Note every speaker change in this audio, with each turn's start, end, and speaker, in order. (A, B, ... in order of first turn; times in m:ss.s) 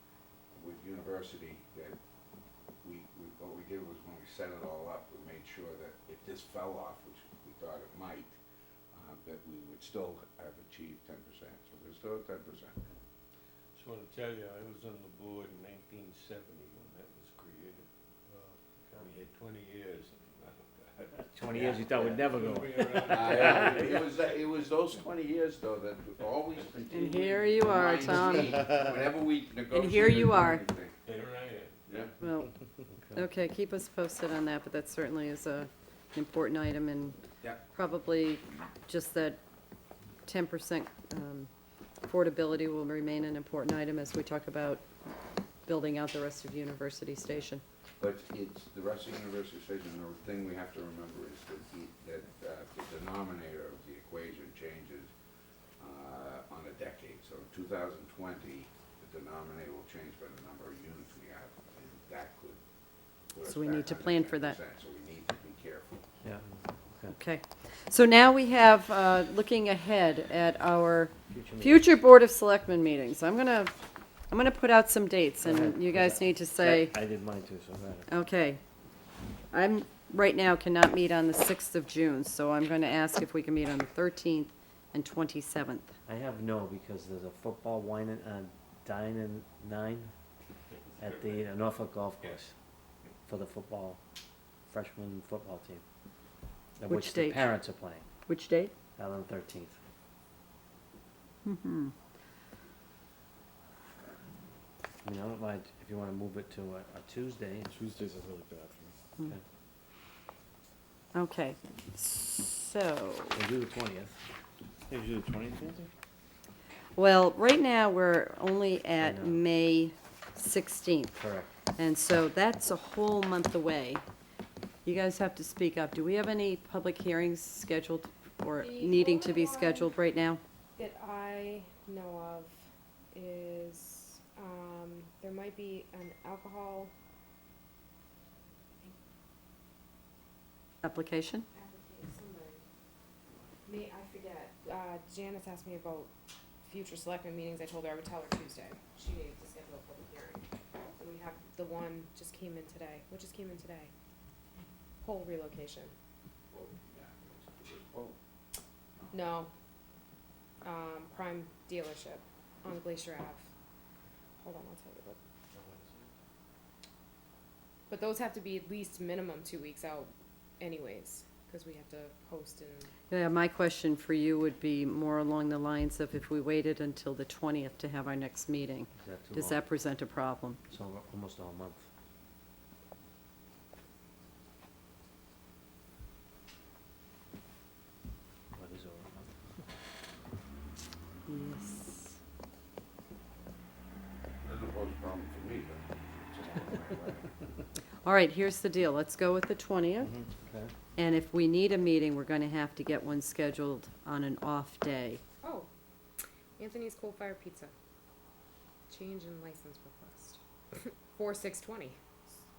0:00.5-0:02.0 A
0:02.8-0:08.4 A
0:08.9-0:12.8 A
0:13.7-0:24.2 B
0:21.2-0:23.8 C
0:23.0-0:31.0 A
0:26.9-0:28.7 D
0:29.7-0:30.6 D
0:31.0-0:32.2 B
0:31.9-0:32.1 A
0:32.2-0:32.5 D
0:33.1-0:37.2 D
0:37.7-0:39.4 D
0:40.2-0:41.5 D
0:42.0-0:44.9 D
0:45.7-0:47.6 D
0:48.0-0:55.1 A
0:55.8-1:02.6 A
1:03.3-1:06.0 A
1:03.4-1:04.6 D
1:06.2-1:07.2 C
1:07.2-1:13.8 D
1:11.3-1:11.9 C
1:14.3-1:16.9 D
1:15.4-1:18.1 C
1:18.1-1:18.6 D
1:19.5-1:26.0 D
1:26.1-1:30.1 C
1:30.7-1:31.6 B
1:31.0-1:32.6 C
1:33.3-1:34.0 C
1:34.7-1:35.8 C
1:36.8-1:38.1 C
1:36.9-1:37.6 D
1:38.3-1:38.7 D
1:39.0-1:39.8 C
1:41.4-1:41.9 D
1:45.0-1:47.9 C
1:47.8-1:48.9 E
1:51.1-1:53.4 D
1:53.3-1:54.2 C
1:54.9-1:55.9 E
1:57.0-2:01.2 D
1:59.0-1:59.4 C
2:01.2-2:01.6 C
2:01.8-2:04.0 D
2:04.8-2:10.4 D
2:08.6-2:09.9 F
2:10.8-2:16.9 F
2:20.8-2:21.5 D
2:21.5-2:22.6 F
2:23.7-2:26.1 F
2:26.6-2:33.9 F
2:35.0-2:35.9 F
2:36.5-2:38.1 A
2:39.0-2:39.3 A
2:39.1-2:39.5 F
2:40.6-2:43.5 F
2:44.4-2:45.2 F
2:45.5-2:46.1 B
2:47.9-2:52.9 F
2:53.1-3:00.6 D
2:59.0-2:59.7 C
3:00.7-3:01.8 C
3:08.5-3:09.3 C
3:11.3-3:12.1 D
3:14.4-3:17.3 A
3:18.0-3:20.1 D
3:20.4-3:20.7 C
3:21.0-3:25.2 D
3:25.4-3:25.7 F
3:26.6-3:27.7 F
3:28.9-3:32.0 F